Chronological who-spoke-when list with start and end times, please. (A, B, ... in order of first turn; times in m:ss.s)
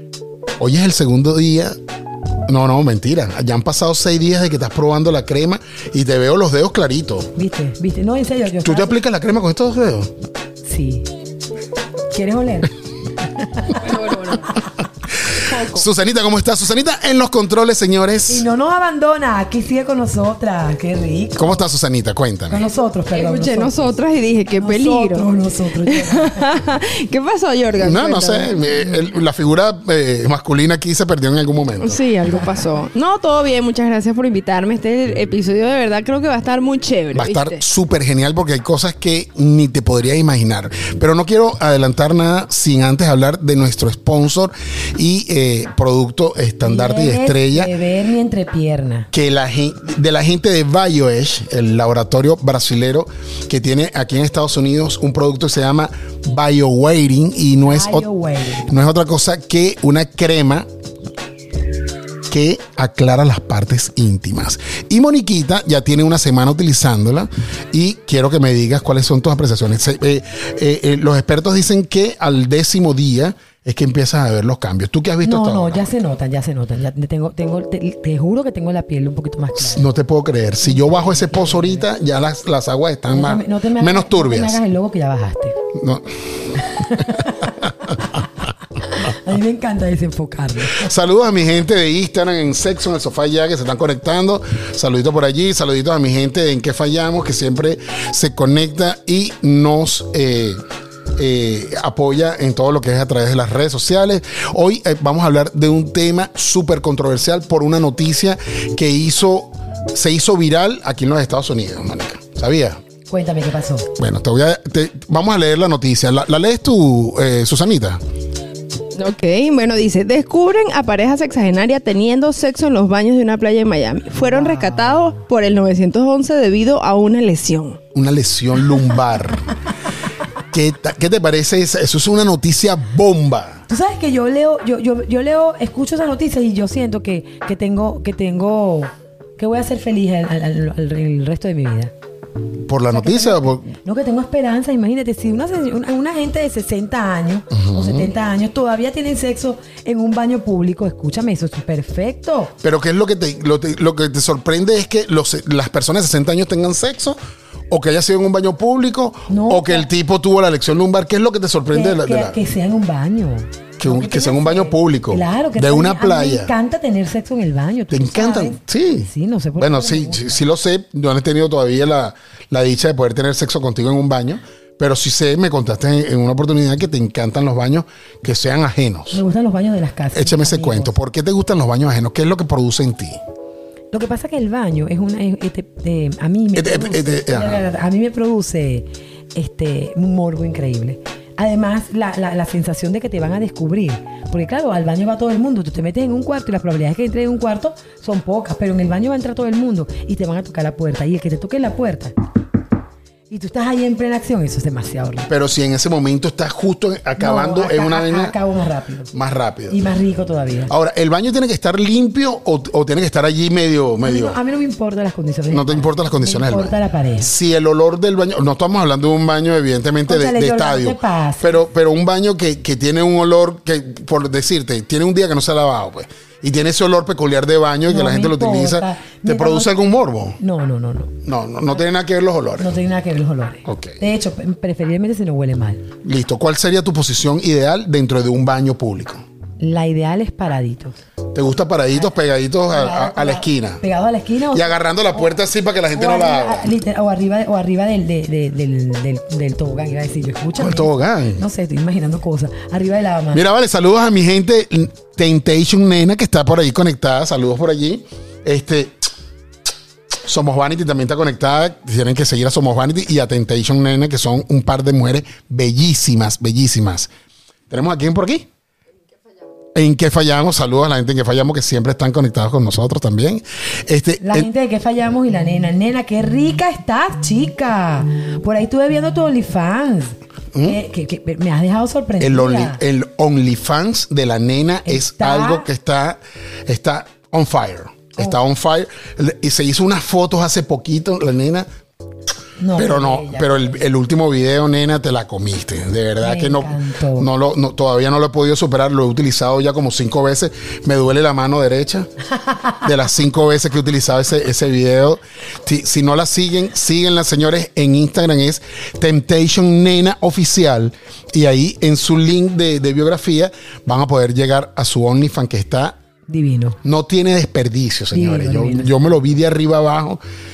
0:00.6-0:01.8 A
0:02.5-0:07.3 A
0:07.3-0:09.0 B
0:08.6-0:10.1 A
0:10.6-0:11.1 B
0:12.1-0:12.7 B
0:13.4-0:13.8 B
0:13.8-0:14.6 C
0:15.2-0:18.4 A
0:15.3-0:15.8 C
0:18.3-0:21.6 B
0:21.4-0:22.6 A
0:22.5-0:24.0 B
0:23.1-0:25.3 C
0:24.5-0:26.6 B
0:25.8-0:28.5 C
0:27.8-0:32.0 A
0:28.7-0:29.0 B
0:31.8-0:37.6 C
0:37.1-0:47.7 A
0:46.6-0:49.1 B
0:49.1-0:58.0 A
0:57.6-0:58.7 B
0:58.6-1:00.7 A
1:02.3-1:15.9 A
1:15.2-1:19.9 B
1:19.6-1:24.6 A
1:20.6-1:21.9 B
1:23.1-1:25.6 B
1:25.7-1:26.0 A
1:26.7-1:27.5 B
1:27.3-1:27.7 A
1:28.8-1:30.9 B
1:30.7-1:40.6 A
1:41.2-1:52.8 A
1:53.1-1:53.9 B
1:54.0-1:58.0 A
1:58.9-2:07.8 C
2:04.2-2:05.1 B
2:07.9-2:09.4 A
2:10.5-2:13.6 A
2:13.7-2:21.9 B
2:22.6-2:23.7 A
2:22.9-2:32.5 B
2:27.5-2:28.1 A
2:32.6-2:37.2 A
2:37.7-2:42.4 A
2:39.3-2:39.9 B
2:41.7-2:50.4 B
2:43.8-2:46.5 A
2:47.9-2:59.2 A
2:59.1-3:00.9 B
3:00.1-3:03.2 A
3:03.9-3:22.1 B
3:06.5-3:07.6 A
3:23.3-3:25.3 B
3:25.3-3:28.3 A
3:27.2-3:29.1 B
3:29.1-3:29.8 A
3:29.7-3:30.7 B
3:30.7-3:34.4 A
3:34.0-3:37.3 B
3:35.5-3:50.4 A
3:40.1-3:41.6 B
3:47.9-3:49.7 B
3:50.4-3:51.1 B
3:51.2-3:52.7 A
3:52.6-3:55.8 B
3:53.6-3:54.0 A
3:56.0-3:59.2 A
3:59.6-4:01.0 B
4:01.3-4:03.8 A
4:02.7-4:05.3 B
4:04.5-4:06.7 A
4:05.9-4:13.4 B
4:10.6-4:11.4 A
4:13.3-4:18.9 A
4:20.2-4:27.1 A
4:27.7-4:28.5 A
4:29.7-4:34.5 A
4:34.2-4:42.8 B
4:42.2-4:51.6 A
4:44.8-4:45.7 B
4:52.6-4:53.6 B
4:52.7-5:02.1 A
4:56.2-4:57.3 B
5:02.8-5:16.0 A
5:16.3-5:16.8 B
5:16.8-5:20.2 A
5:18.1-5:18.9 B